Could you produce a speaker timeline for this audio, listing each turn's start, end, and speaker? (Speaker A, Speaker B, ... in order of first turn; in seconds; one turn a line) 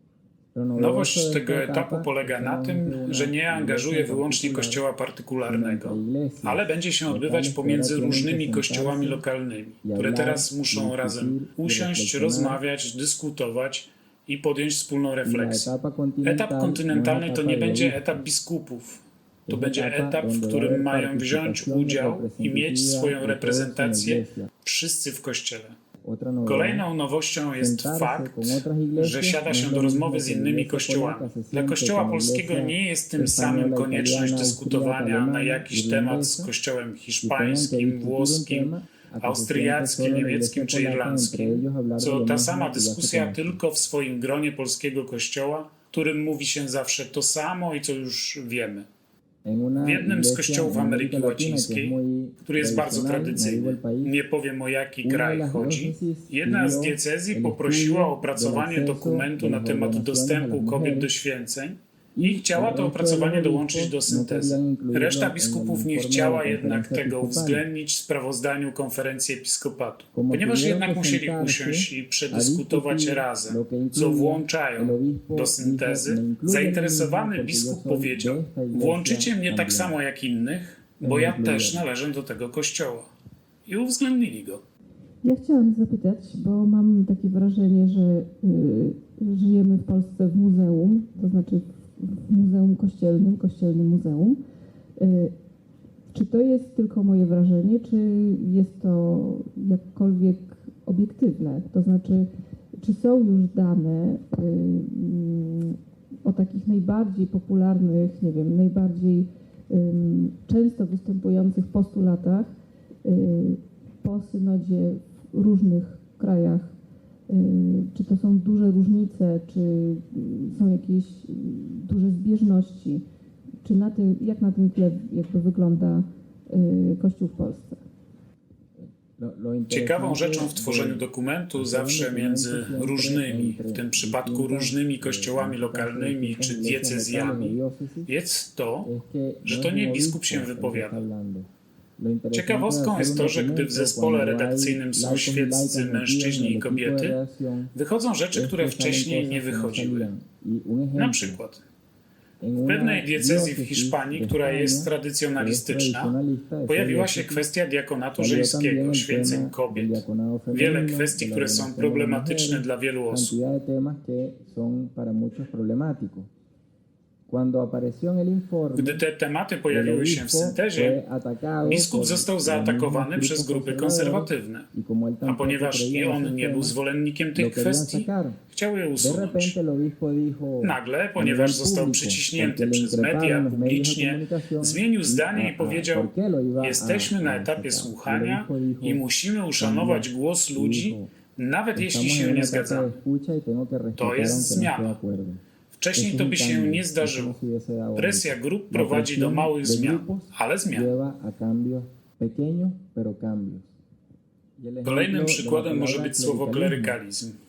Speaker A: 0.5-4.8
Speaker B: 0.8-15.7
Speaker A: 5.4-9.2
Speaker A: 9.8-12.6
Speaker A: 15.2-18.0
Speaker B: 16.2-25.8
Speaker A: 19.5-24.5
Speaker A: 26.0-26.8
Speaker B: 26.4-48.9
Speaker A: 27.6-36.5
Speaker A: 37.2-43.6
Speaker A: 49.4-54.1
Speaker B: 49.8-51.9
Speaker B: 52.5-83.1
Speaker A: 55.0-61.1
Speaker A: 62.1-67.6
Speaker A: 70.1-79.9
Speaker A: 81.0-81.8
Speaker B: 83.7-84.6
Speaker C: 85.2-94.4
Speaker C: 95.0-95.3
Speaker C: 96.1-112.5
Speaker C: 113.0-116.7
Speaker C: 117.3-123.0
Speaker C: 123.6-127.8
Speaker A: 128.8-138.1
Speaker B: 129.7-137.6
Speaker B: 138.1-138.9
Speaker A: 138.8-147.7
Speaker B: 139.4-141.0
Speaker B: 142.3-147.2
Speaker B: 147.7-150.1
Speaker A: 148.3-151.4
Speaker B: 150.9-151.6
Speaker A: 152.4-157.4
Speaker B: 152.6-156.1
Speaker B: 156.7-163.3
Speaker A: 158.2-166.3
Speaker A: 167.3-169.0
Speaker B: 168.8-171.0
Speaker A: 169.7-176.8
Speaker B: 171.6-174.7
Speaker B: 175.2-179.6
Speaker A: 177.3-178.4
Speaker A: 179.0-189.0
Speaker B: 180.6-193.0
Speaker A: 189.6-191.1
Speaker A: 191.7-195.4
Speaker B: 194.0-195.0
Speaker B: 195.8-197.4
Speaker A: 195.9-203.7
Speaker B: 197.9-200.9
Speaker A: 204.6-207.0
Speaker B: 204.8-207.3